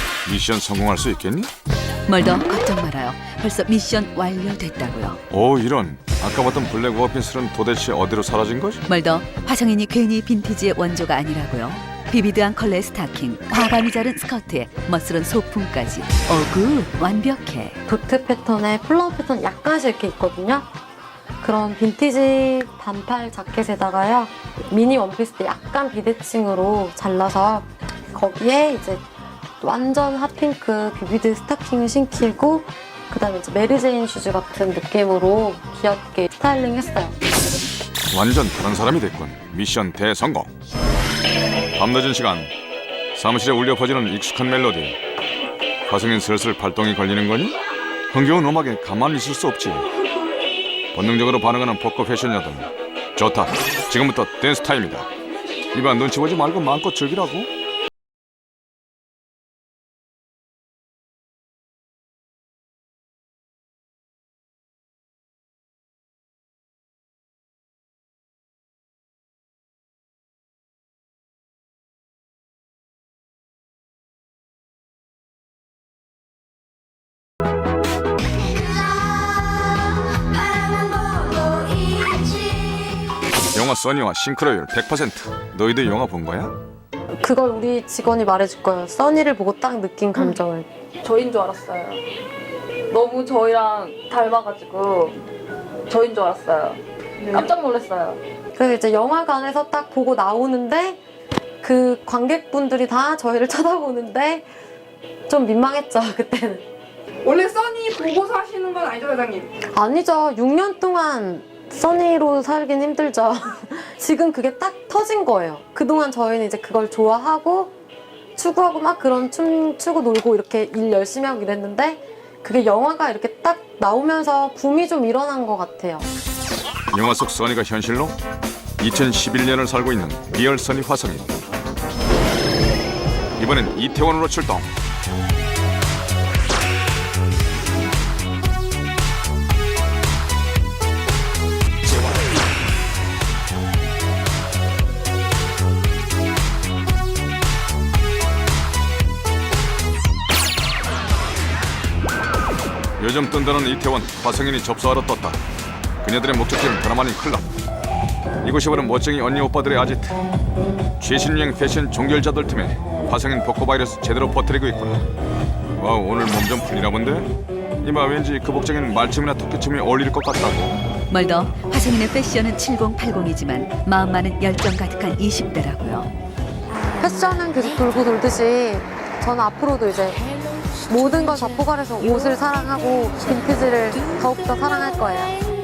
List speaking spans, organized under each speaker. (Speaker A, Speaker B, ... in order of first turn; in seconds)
Speaker A: 0.2-1.5, 5.3-8.8, 38.1-40.5, 41.8-42.5, 43.1-45.0, 45.9-47.5, 48.1-49.9, 50.9-55.1, 55.7-57.5, 83.5-86.5, 126.9-128.2, 128.8-131.3, 133.4-134.7, 153.0-155.4, 156.0-157.5, 158.4-160.2, 161.0-165.0, 165.8-167.3, 167.8-170.8
Speaker B: 2.1-5.2, 8.9-17.8, 171.1-176.1
Speaker C: 17.9-20.7, 21.4-29.0, 29.6-37.1, 87.2-90.7, 98.5-101.0, 101.6-104.5, 105.3-106.6, 109.7-117.7, 118.3-126.1, 177.0-180.2, 180.9-185.4
Speaker D: 91.0-92.0, 92.9-95.2, 95.9-98.2
Speaker E: 107.2-109.5